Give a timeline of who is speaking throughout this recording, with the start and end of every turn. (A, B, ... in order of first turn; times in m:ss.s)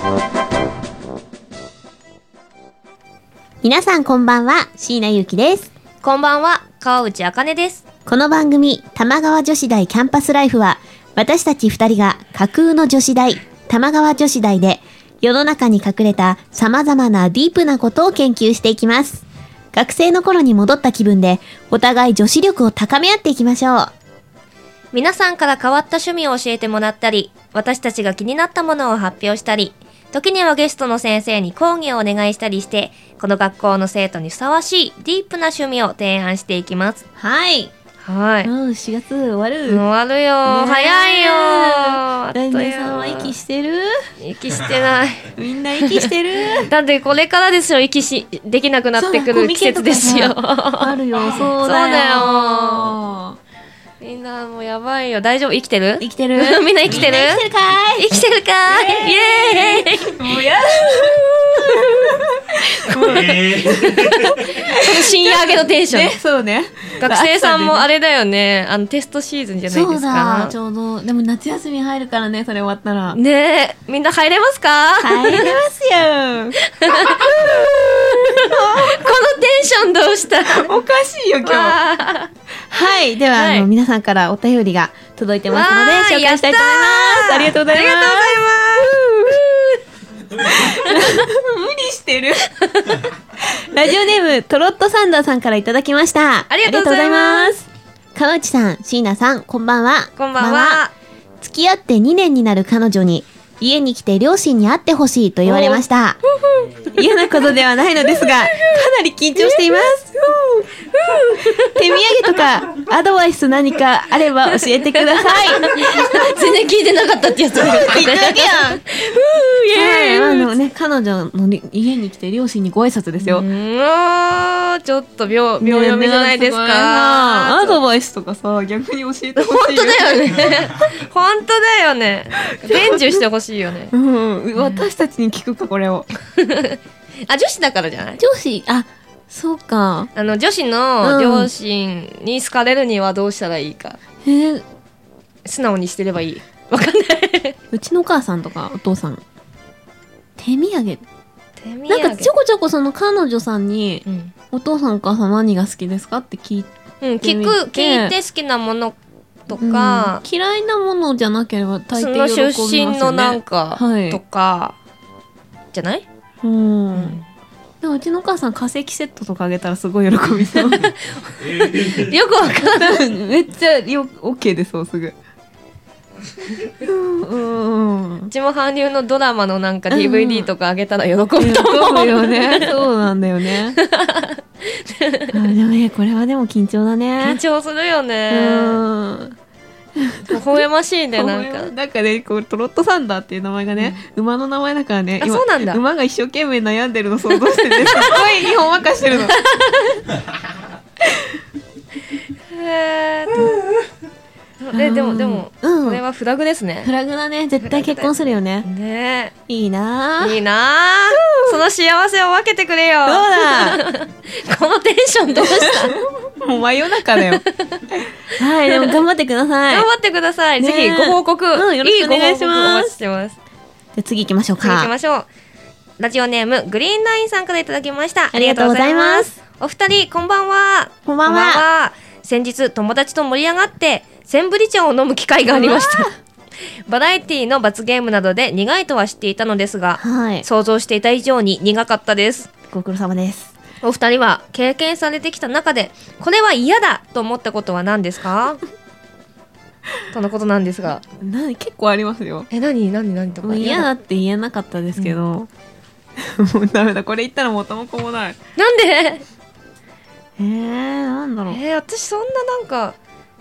0:03.6-0:05.7 A
0:06.0-0:07.8 B
0:08.0-0:23.9 A
0:24.9-0:37.0 B
0:37.2-0:37.7 A
0:38.0-0:38.5 B
0:38.4-0:39.8 A
0:39.7-0:43.3 B
0:40.4-0:44.0 A
0:44.2-0:52.9 B
0:45.3-0:46.7 A
0:48.9-0:53.4 A
0:54.0-0:57.4 B
0:56.0-1:07.8 A
0:58.0-1:06.2 B
1:07.0-1:10.6 B
1:09.7-1:13.2 A
1:13.1-1:15.6 B
1:15.0-1:19.1 A
1:16.6-1:20.7 B
1:20.4-1:21.8 A
1:21.4-1:22.3 B
1:22.7-1:29.4 A
1:23.3-1:23.7 B
1:25.5-1:29.7 B
1:30.3-1:40.8 A
1:30.6-1:31.1 B
1:32.6-1:33.1 B
1:36.5-1:37.6 B
1:40.2-1:40.9 B
1:41.4-1:46.2 A
1:45.4-1:45.8 B
1:46.5-1:47.0 B
1:46.9-1:50.7 A
1:48.1-1:48.8 B
1:50.8-1:52.0 B
1:51.4-1:56.5 A
1:54.5-2:00.5 B
1:57.5-1:58.8 A
1:59.7-2:03.5 A
2:03.2-2:07.8 B
2:05.6-2:10.6 A
2:09.4-2:13.9 B
2:12.6-2:13.2 A
2:13.9-2:16.1 A
2:14.6-2:14.8 B
2:16.3-2:18.2 B
2:18.2-2:20.1 A
2:20.1-2:24.0 B
2:21.0-2:21.5 A
2:24.2-2:24.6 A
2:25.4-2:27.6 B
2:27.7-2:29.2 A
2:30.4-2:31.0 A
2:31.6-2:32.3 B
2:31.9-2:38.1 A
2:34.0-2:34.3 B
2:37.0-2:40.2 B
2:39.6-2:44.2 A
2:41.9-2:44.8 B
2:45.7-2:46.0 B
2:46.4-2:47.2 A
2:46.9-2:47.2 B
2:47.8-2:50.9 A
2:50.6-2:53.0 B
2:52.6-2:55.1 A
2:56.8-2:58.3 A
2:58.3-3:02.8 B
2:59.9-3:00.5 A
3:01.4-3:03.8 A
3:03.7-3:05.5 B
3:05.3-3:07.4 A
3:07.2-3:08.8 B
3:08.3-3:09.3 A
3:10.0-3:10.4 A
3:10.2-3:11.7 B
3:11.1-3:19.4 A
3:15.2-3:15.8 B
3:17.3-3:18.2 B
3:19.1-3:20.0 B
3:21.0-3:21.3 A
3:22.5-3:23.7 B
3:24.6-3:26.9 B
3:24.7-3:26.0 A
3:26.8-3:28.7 A
3:27.6-3:29.3 B
3:29.5-3:30.4 A
3:30.2-3:36.0 B
3:31.2-3:31.6 A
3:33.0-3:33.8 A
3:35.4-3:37.4 A
3:37.5-3:37.8 B
3:38.2-3:39.9 A
3:38.7-3:39.0 B
3:39.7-3:43.4 B
3:40.6-3:42.9 A
3:44.0-3:44.9 A
3:44.6-3:45.3 B
3:46.0-3:56.1 B
3:48.3-3:49.3 A
3:51.0-3:51.6 A
3:55.5-3:56.1 A
3:56.9-4:02.5 B
4:00.0-4:00.4 A
4:02.7-4:03.5 A
4:03.8-4:08.6 B
4:10.1-4:11.0 B
4:11.2-4:12.5 A
4:12.5-4:13.9 B
4:13.4-4:15.5 A
4:16.2-4:18.4 A
4:18.6-4:19.2 B
4:20.4-4:21.6 A
4:21.5-4:23.0 B